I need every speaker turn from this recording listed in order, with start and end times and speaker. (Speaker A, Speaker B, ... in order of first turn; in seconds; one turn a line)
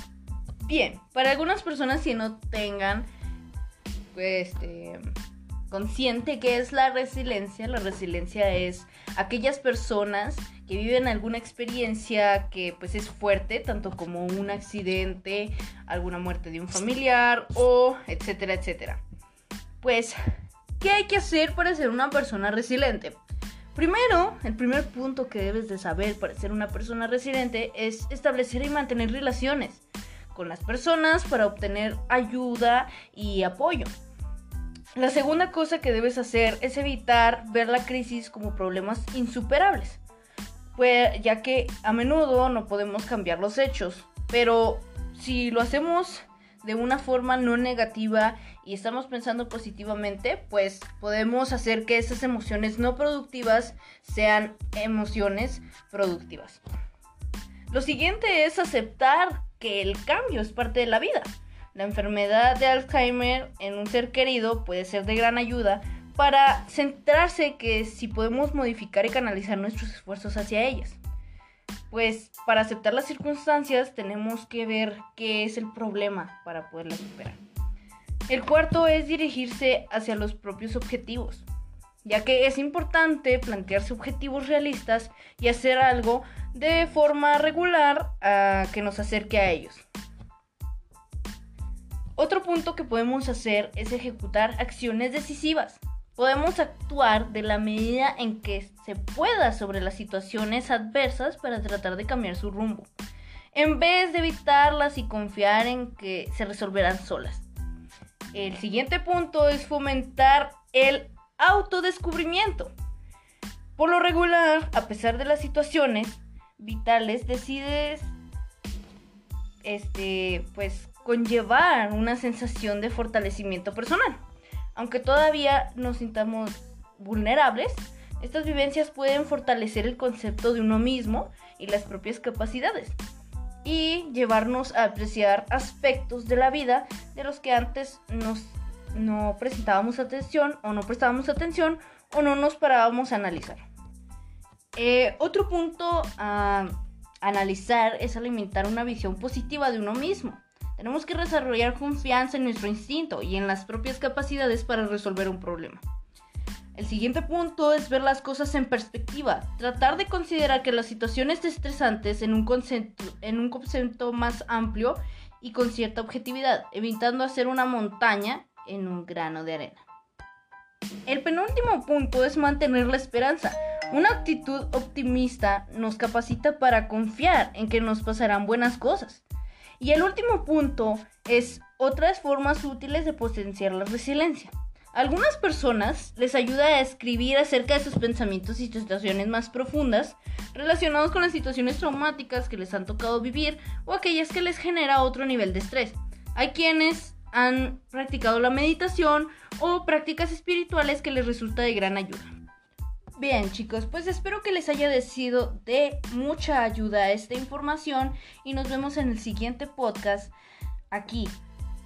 Speaker A: 0.7-3.1
Speaker A: 4.1-5.0
Speaker A: 5.7-19.0
Speaker A: 19.8-20.2
Speaker A: 20.8-23.2
Speaker A: 23.7-33.9
Speaker A: 35.0-40.0
Speaker A: 40.8-56.6
Speaker A: 57.7-71.0
Speaker A: 71.9-77.4
Speaker A: 78.3-81.5
Speaker A: 82.0-89.8
Speaker A: 92.2-102.9
Speaker A: 103.5-107.5
Speaker A: 108.3-112.7
Speaker A: 113.8-118.1
Speaker A: 119.6-124.2
Speaker A: 124.8-133.0
Speaker A: 133.6-143.6
Speaker A: 144.8-155.8
Speaker A: 156.8-169.8
Speaker A: 171.1-179.2
Speaker A: 179.8-202.3
Speaker A: 203.2-210.3
Speaker A: 210.9-211.4